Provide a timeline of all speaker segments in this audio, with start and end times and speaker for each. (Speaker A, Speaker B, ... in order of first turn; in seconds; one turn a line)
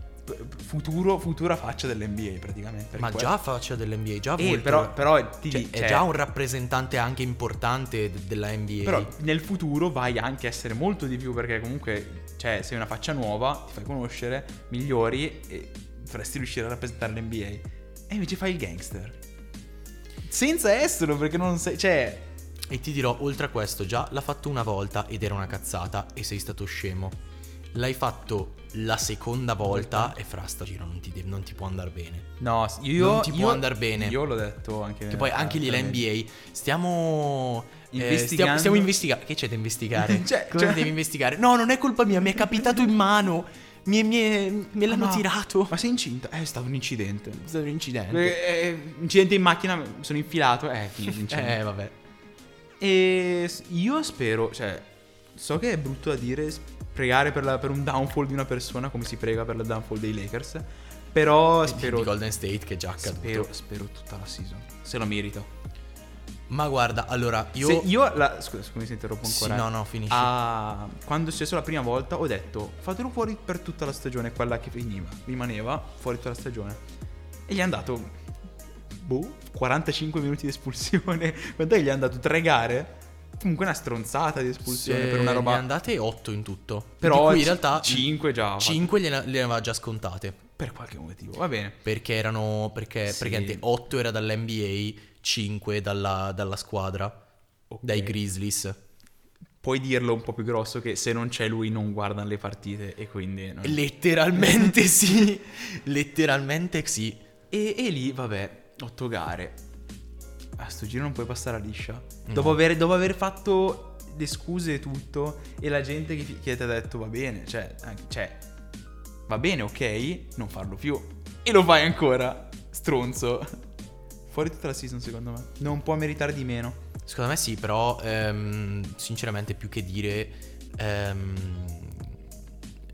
Speaker A: 0.3-3.3
Speaker B: 3.0-9.1
Speaker A: 4.4-6.1
Speaker A: 8.8-19.2
Speaker A: 20.3-22.3
Speaker B: 22.7-27.2
Speaker B: 27.7-32.3
Speaker A: 29.6-30.1
Speaker A: 32.4-36.1
Speaker B: 33.0-34.2
Speaker B: 35.1-45.8
Speaker A: 37.9-39.0
Speaker A: 39.9-41.0
Speaker A: 44.9-47.5
Speaker B: 47.4-48.4
Speaker A: 48.1-51.6
Speaker B: 51.1-52.0
Speaker A: 52.8-62.1
Speaker B: 61.6-63.5
Speaker A: 63.0-65.5
Speaker B: 66.5-67.9
Speaker A: 67.6-76.8
Speaker B: 69.2-70.3
Speaker A: 77.5-78.1
Speaker A: 78.9-85.7
Speaker B: 84.7-90.4
Speaker A: 87.0-88.9
Speaker A: 90.6-91.8
Speaker B: 91.8-97.2
Speaker A: 93.1-93.7
Speaker A: 97.7-98.2
Speaker B: 97.8-98.8
Speaker A: 99.6-103.8
Speaker B: 103.6-107.2
Speaker A: 104.4-104.7
Speaker A: 107.5-109.6
Speaker A: 110.6-118.4
Speaker B: 112.3-112.6
Speaker A: 119.3-123.6
Speaker A: 124.3-126.8
Speaker B: 127.1-132.2